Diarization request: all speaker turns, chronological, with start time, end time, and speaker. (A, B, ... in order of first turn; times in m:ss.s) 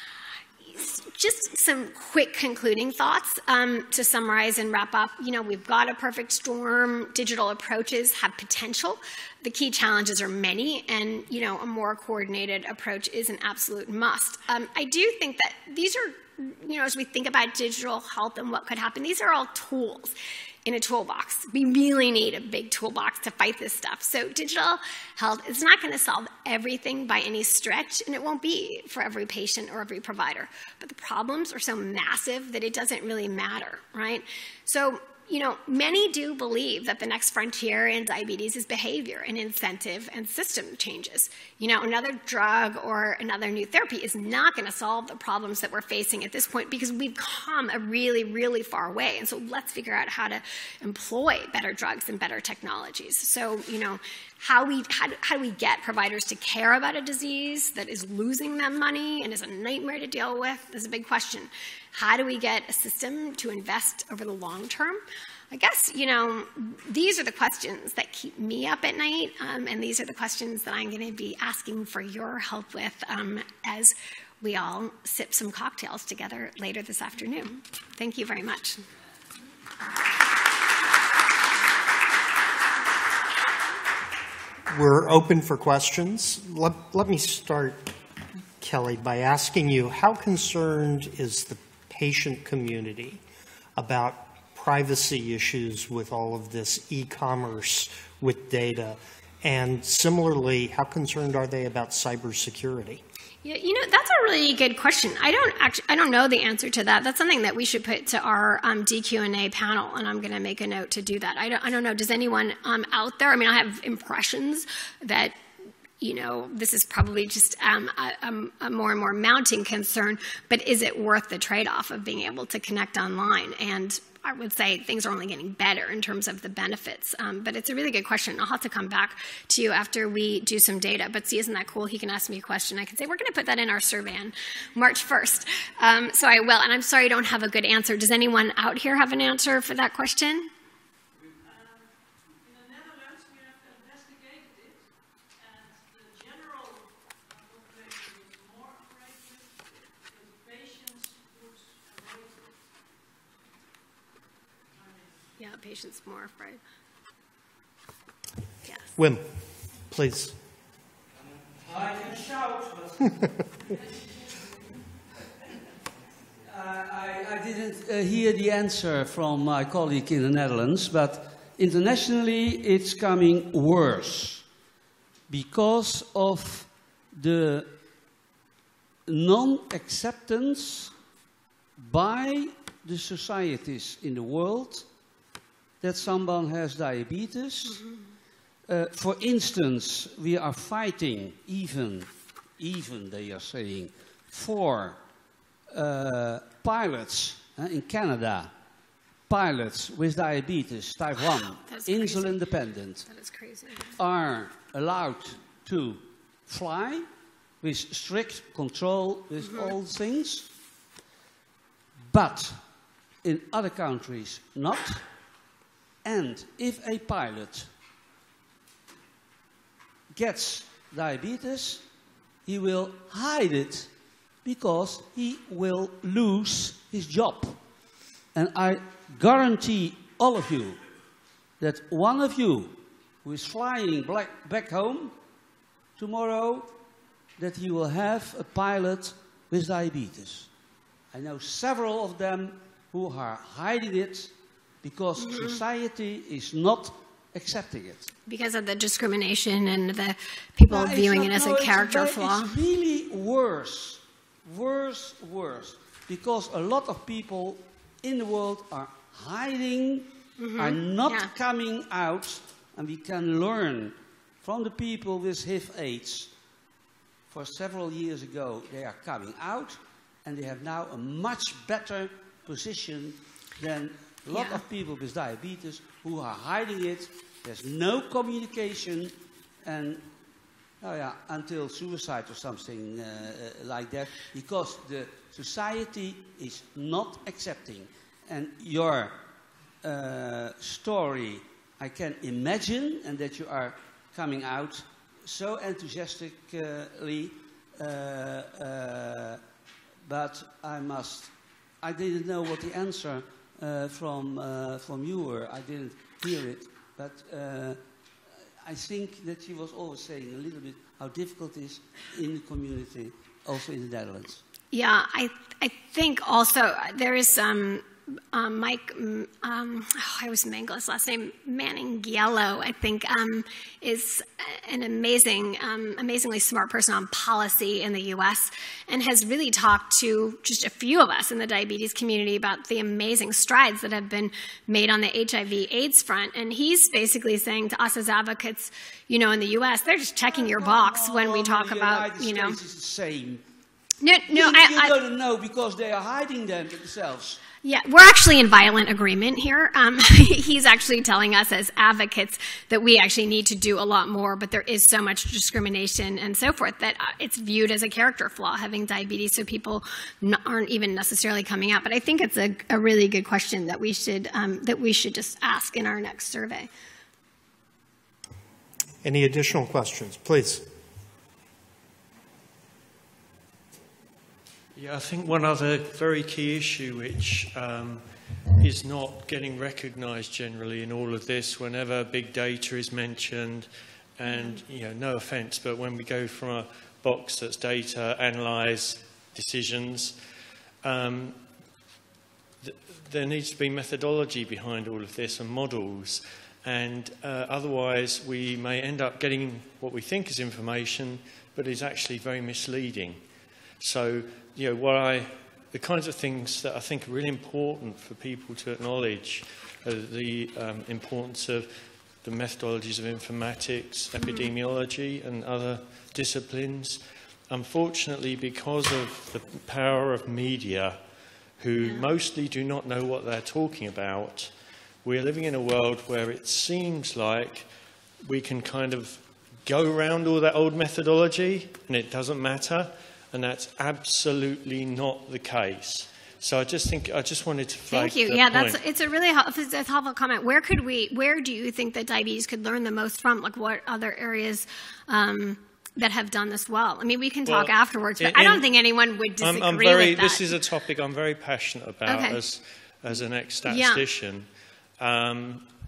0:00.7-1:18.8 A
1:24.7-1:27.9 B
1:28.6-1:33.2 B
1:33.8-1:43.0 B
1:43.4-1:55.4 A
1:56.0-2:20.5 A
2:35.4-2:36.6 A
2:38.6-2:38.9 A
2:39.0-2:40.4 B
2:41.5-2:43.1 C
2:46.5-2:54.4 C
2:55.3-2:57.7 C
2:59.1-3:00.9 C
3:01.8-3:04.8 C
3:05.8-3:07.9 C
3:08.6-3:15.0 C
3:15.7-3:18.5 C
3:19.3-3:23.1 C
3:21.6-3:22.4 A
3:23.0-3:23.9 A
3:24.0-3:27.1 C
3:27.6-3:30.5 C
3:32.1-3:32.6 C
3:33.2-3:35.3 C
3:36.0-3:37.7 C
3:40.1-3:41.9 C
3:42.4-3:43.9 C
3:44.4-3:47.8 C
3:48.3-3:50.8 C
3:51.6-3:55.2 C
3:56.0-3:56.8 C
3:57.4-4:00.5 C
4:01.1-4:08.1 C
4:05.2-4:05.6 A
4:08.3-4:12.5 A
4:10.7-4:26.3 C
4:20.4-4:21.3 A
4:27.3-4:40.1 C
4:34.3-4:34.6 A
4:40.8-4:49.2 C
4:49.8-4:59.4 C
5:00.0-5:07.8 C
5:08.6-5:14.4 C
5:14.7-5:42.6 A
5:40.3-5:43.4 C
5:44.0-5:44.9 A
5:44.2-5:47.4 C
5:47.6-6:06.7 A
6:09.0-6:10.6 B
6:14.7-6:30.2 D
6:24.3-6:24.6 A
6:30.8-6:31.4 D
6:32.6-6:43.2 D
6:43.8-7:01.0 D
6:54.2-6:54.5 A
7:01.5-7:04.5 D
7:05.0-7:07.7 D
7:08.2-7:18.8 D
7:17.9-7:30.5 A
7:27.4-7:28.7 D
7:29.4-7:35.7 D
7:32.0-7:32.4 A
7:33.6-7:34.0 A